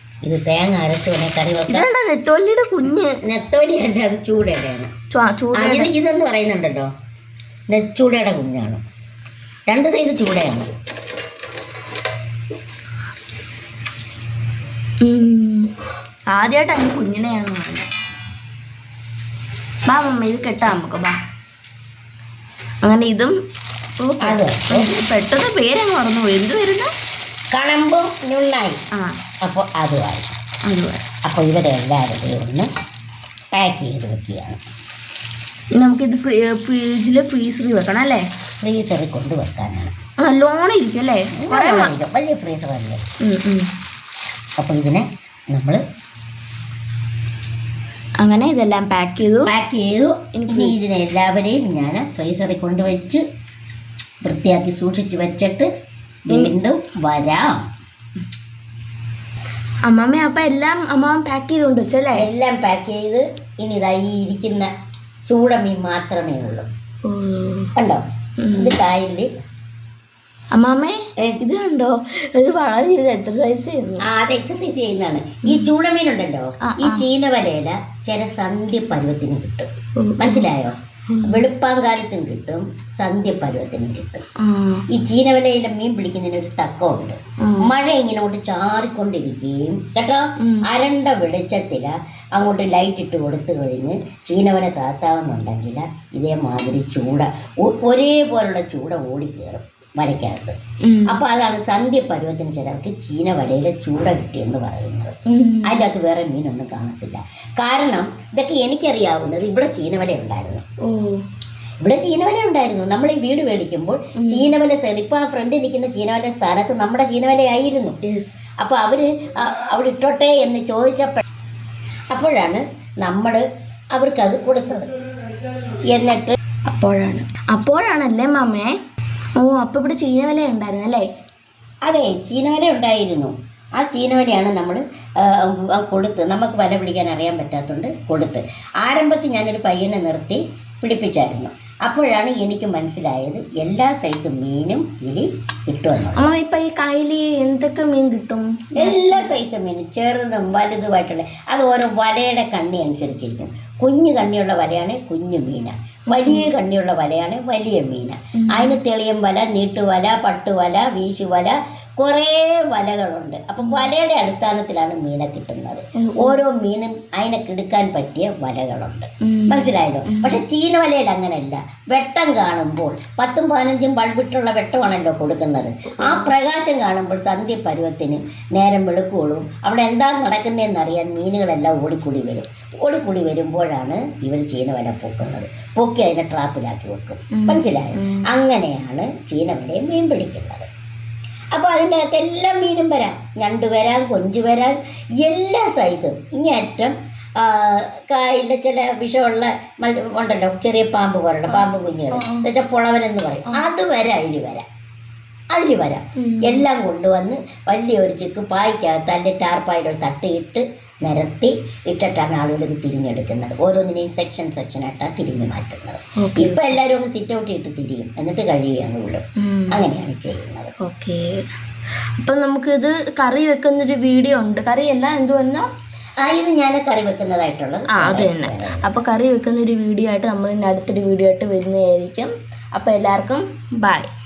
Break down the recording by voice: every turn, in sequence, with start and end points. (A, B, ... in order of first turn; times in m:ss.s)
0:00.2-0:01.9 A
0:01.7-0:03.2 B
0:03.2-0:04.9 A
0:05.1-0:05.9 B
0:05.5-0:06.9 A
0:07.7-0:08.8 A
0:09.7-0:10.7 A
0:15.0-0:15.7 B
0:16.3-0:17.9 B
0:19.9-0:21.2 B
0:22.8-0:23.4 B
0:24.0-0:26.9 B
0:24.2-0:24.9 A
0:27.5-0:28.8 A
0:29.4-0:30.4 A
0:30.6-0:31.0 B
0:31.2-0:32.7 A
0:33.5-0:34.6 A
0:35.8-0:38.2 B
0:38.6-0:39.9 A
0:40.2-0:41.9 B
0:41.4-0:43.0 A
0:43.2-0:43.7 B
0:44.6-0:45.8 A
0:48.2-0:49.5 B
0:49.4-0:53.2 A
0:50.3-0:50.8 B
0:54.2-0:55.7 A
0:56.2-0:57.6 A
0:59.8-1:02.3 B
1:02.1-1:04.7 A
1:05.2-1:06.7 A
1:07.0-1:07.7 B
1:07.8-1:09.3 A
1:08.4-1:08.7 B
1:10.5-1:14.1 B
1:14.0-1:24.2 A
1:16.6-1:17.0 B
1:20.0-1:20.4 B
1:21.1-1:21.4 B
1:24.4-1:24.8 B
1:24.9-1:50.6 A
1:27.4-1:27.7 B
1:30.4-1:30.7 B
1:40.8-1:41.2 B
1:45.3-1:45.8 B
1:50.8-1:51.2 B
1:51.8-1:58.0 A
1:54.2-1:54.5 B
1:58.0-1:58.4 B
1:58.6-2:01.2 A
2:02.1-2:04.9 A
2:05.9-2:06.4 A
2:06.7-2:08.7 B
2:09.4-2:11.1 B
2:11.8-2:26.4 A
2:26.1-2:29.3 B
2:28.8-3:10.7 A
2:36.1-2:36.5 B
2:38.4-2:38.8 B
2:43.6-2:43.9 B
2:46.0-2:46.4 B
2:49.2-2:50.4 B
2:56.0-2:56.3 B
3:07.3-3:08.3 B
3:11.5-3:24.7 A
3:21.5-3:22.5 B
3:25.5-3:40.7 A
3:26.2-3:26.6 B
3:36.2-3:36.7 B
3:39.4-3:39.8 B
3:40.8-3:41.4 B
3:42.2-3:45.7 B
3:46.2-3:49.0 A
3:47.9-3:54.1 B